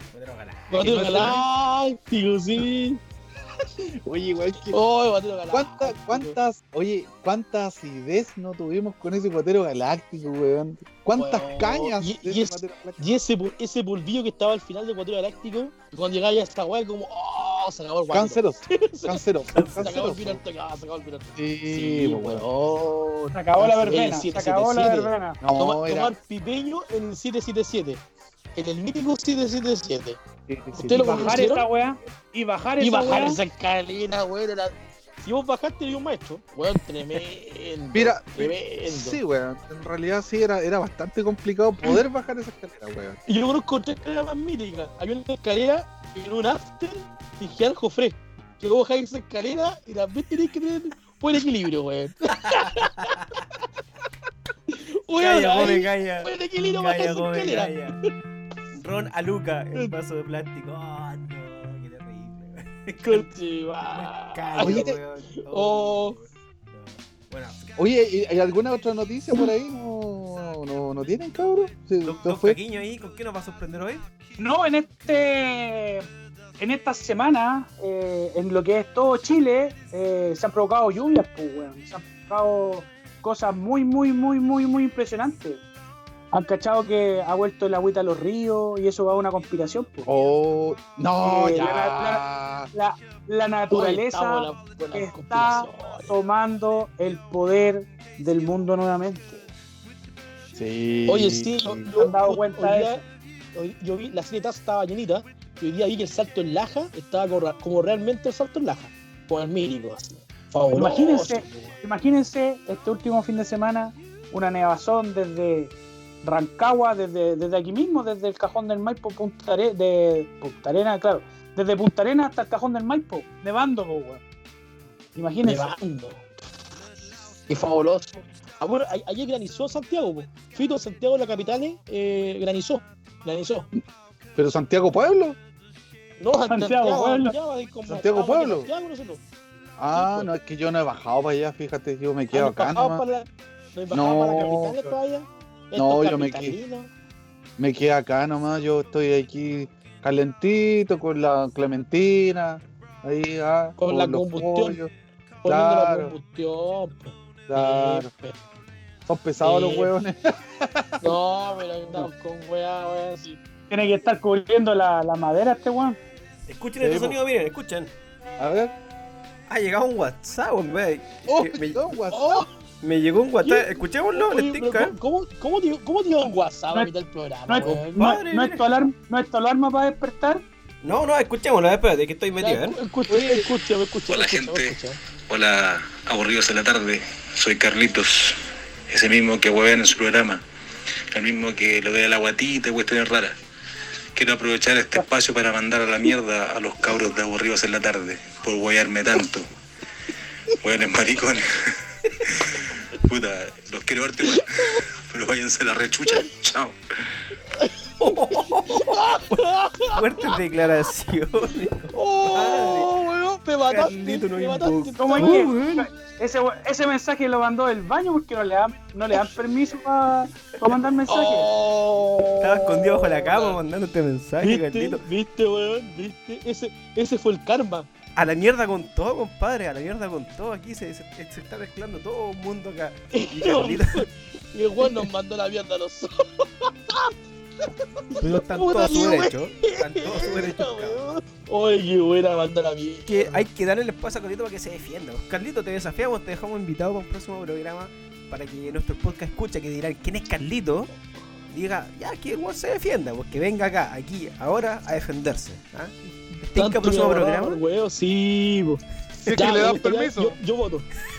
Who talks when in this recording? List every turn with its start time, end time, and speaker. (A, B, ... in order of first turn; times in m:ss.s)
0:00.1-0:01.4 A
0:00.7-0:03.0 B
0:04.0-0:04.8 C
0:04.7-0:06.4 B
0:05.5-0:13.1 C
0:11.2-0:28.0 B
0:18.1-0:20.4 C
0:19.6-0:19.9 A
0:21.4-0:22.4 C
0:23.4-0:25.4 D
0:23.6-0:24.0 C
0:25.4-0:26.1 C
0:28.6-0:30.2 B
0:30.5-0:31.5 C
0:30.7-0:31.7 B
0:31.0-0:33.4 D
0:32.8-0:39.2 B
0:37.9-0:43.2 C
0:43.3-0:53.2 B
0:52.4-0:53.3 A
0:54.7-0:57.8 B
0:55.2-0:58.0 A
0:58.7-1:03.3 A
1:03.0-1:05.0 B
1:03.9-1:07.8 A
1:04.6-1:05.0 C
1:05.5-1:06.2 B
1:07.8-1:12.6 C
1:12.0-1:14.1 A
1:14.4-1:16.1 D
1:16.6-1:25.6 D
1:26.3-1:30.1 D
1:30.1-1:32.7 C
1:31.2-1:39.4 D
1:33.7-1:36.2 B
1:40.6-1:41.9 C
1:41.1-1:43.0 B
1:42.0-1:43.0 D
1:43.6-1:51.8 B
1:50.7-2:04.2 D
2:05.2-2:05.7 D
2:05.4-2:06.3 B
2:07.5-2:13.7 B
2:14.4-2:15.4 C
2:16.2-2:19.2 B
2:16.5-2:17.4 D
2:17.9-2:18.7 C
2:19.8-2:23.0 C
2:19.9-2:20.3 B
2:22.3-2:26.9 B
2:23.9-2:24.9 C
2:25.8-2:26.6 C
2:27.6-2:34.9 C
2:33.8-2:34.8 B
2:35.4-2:38.4 B
2:35.5-2:36.1 C
2:37.5-2:38.1 C
2:39.1-2:41.1 C
2:39.4-2:39.9 B
2:41.0-2:43.4 B
2:43.7-2:46.0 D
2:46.5-2:47.9 A
2:46.8-2:47.2 C
2:48.4-2:48.7 C
2:49.5-2:51.9 A
2:51.3-2:52.5 C
2:52.1-2:52.5 B
2:52.8-2:55.0 A
2:53.4-2:57.9 B
2:57.5-3:00.4 D
2:58.0-2:58.6 A
3:00.8-3:02.8 A
3:02.4-3:05.0 B
3:04.1-3:04.8 E
3:05.3-3:08.4 E
3:08.9-3:10.4 E
3:11.1-3:13.4 E
3:14.2-3:19.5 E
3:20.6-3:26.8 E
3:24.3-3:24.8 B
3:27.5-3:30.4 B
3:28.0-3:32.9 A
3:31.9-3:35.9 B
3:33.7-3:35.6 A
3:35.0-3:41.5 D
3:41.1-3:43.6 B
3:42.4-3:45.0 A
3:44.4-3:47.9 B
3:48.2-3:54.1 A
3:53.1-3:57.1 B
3:58.0-4:03.4 B
3:58.2-4:01.0 A
4:03.1-4:10.9 A
4:11.5-4:17.6 A
4:16.5-4:20.9 B
4:19.2-4:20.4 C